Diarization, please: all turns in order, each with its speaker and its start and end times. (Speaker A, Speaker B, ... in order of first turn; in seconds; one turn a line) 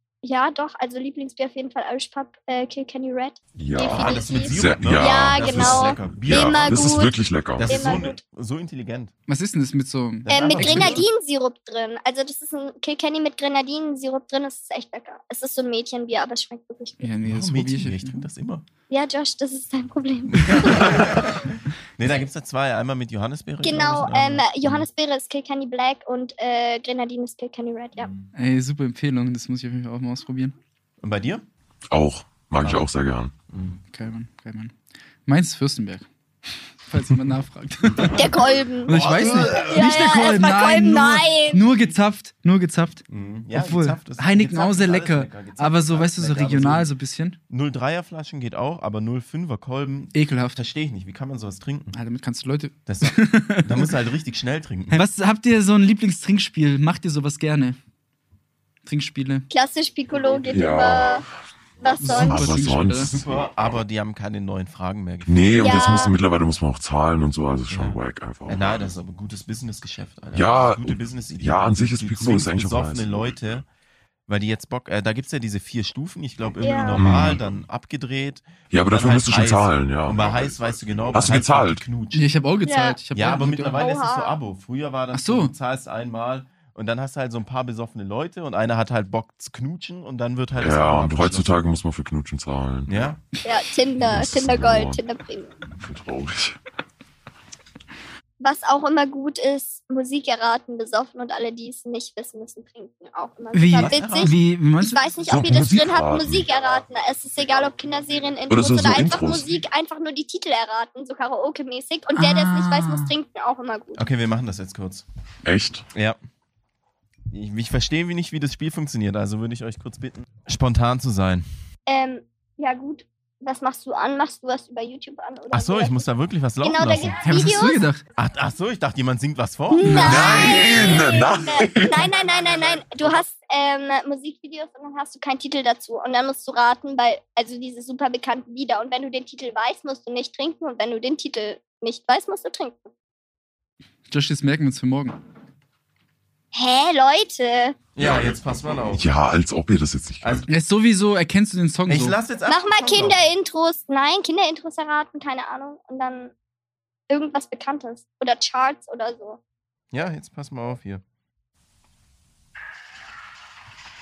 Speaker A: 0.2-7.1
Speaker B: 3.6-8.0
Speaker C: 3.8-7.0
Speaker C: 7.6-9.1
Speaker A: 7.6-8.2
Speaker D: 9.3-11.1
Speaker C: 10.2-11.1
Speaker A: 10.3-17.1
Speaker D: 17.0-18.2
Speaker C: 17.2-18.6
Speaker A: 18.9-21.3
Speaker C: 20.4-24.9
Speaker A: 23.6-28.1
Speaker C: 28.0-28.2
Speaker D: 28.3-30.5
Speaker C: 31.0-31.4
Speaker B: 31.9-33.3
Speaker C: 32.6-32.9
Speaker C: 33.5-33.8
Speaker D: 33.9-34.7
Speaker D: 35.3-36.1
Speaker D: 36.8-38.3
Speaker C: 37.9-39.9
Speaker A: 38.1-41.6
Speaker D: 38.8-43.0
Speaker C: 43.1-46.9
Speaker D: 43.5-47.4
Speaker C: 47.5-52.0
Speaker D: 50.1-50.6
Speaker D: 51.9-53.9
Speaker C: 52.9-55.0
Speaker D: 54.9-57.8
Speaker D: 58.8-59.5
Speaker A: 59.5-61.2
Speaker B: 60.5-61.2
Speaker A: 61.8-62.6
Speaker D: 62.0-63.1
Speaker B: 62.0-63.2
Speaker C: 63.0-66.1
Speaker B: 65.2-68.9
Speaker A: 65.6-66.1
Speaker C: 67.7-73.7
Speaker B: 70.3-73.3
Speaker C: 74.3-82.2
Speaker A: 76.6-77.0
Speaker B: 76.9-77.4
Speaker B: 78.7-80.5
Speaker B: 81.1-81.8
Speaker D: 82.1-83.8
Speaker A: 82.7-83.0
Speaker C: 83.1-91.7
Speaker A: 83.7-84.3
Speaker D: 85.1-85.5
Speaker B: 90.6-93.1
Speaker C: 92.9-93.2
Speaker A: 93.4-95.6
Speaker B: 94.0-95.0
Speaker B: 95.7-96.6
Speaker A: 98.4-114.0
Speaker D: 103.5-105.0
Speaker C: 103.7-104.3
Speaker B: 105.3-106.5
Speaker B: 108.5-109.5
Speaker D: 112.2-113.1
Speaker C: 114.0-115.0
Speaker B: 115.4-115.8
Speaker C: 115.9-116.2
Speaker C: 117.3-121.4
Speaker A: 121.9-126.0
Speaker C: 125.5-127.2
Speaker A: 126.6-127.8
Speaker D: 127.2-128.0
Speaker C: 128.2-130.4
Speaker A: 129.7-142.9
Speaker D: 129.8-130.4
Speaker B: 130.0-132.1
Speaker D: 144.1-145.2
Speaker A: 146.5-147.8
Speaker C: 147.9-149.1
Speaker B: 148.0-148.4
Speaker B: 148.9-150.5
Speaker D: 150.5-152.2
Speaker C: 151.9-153.2
Speaker A: 152.5-156.3
Speaker A: 157.1-159.4
Speaker C: 159.9-161.0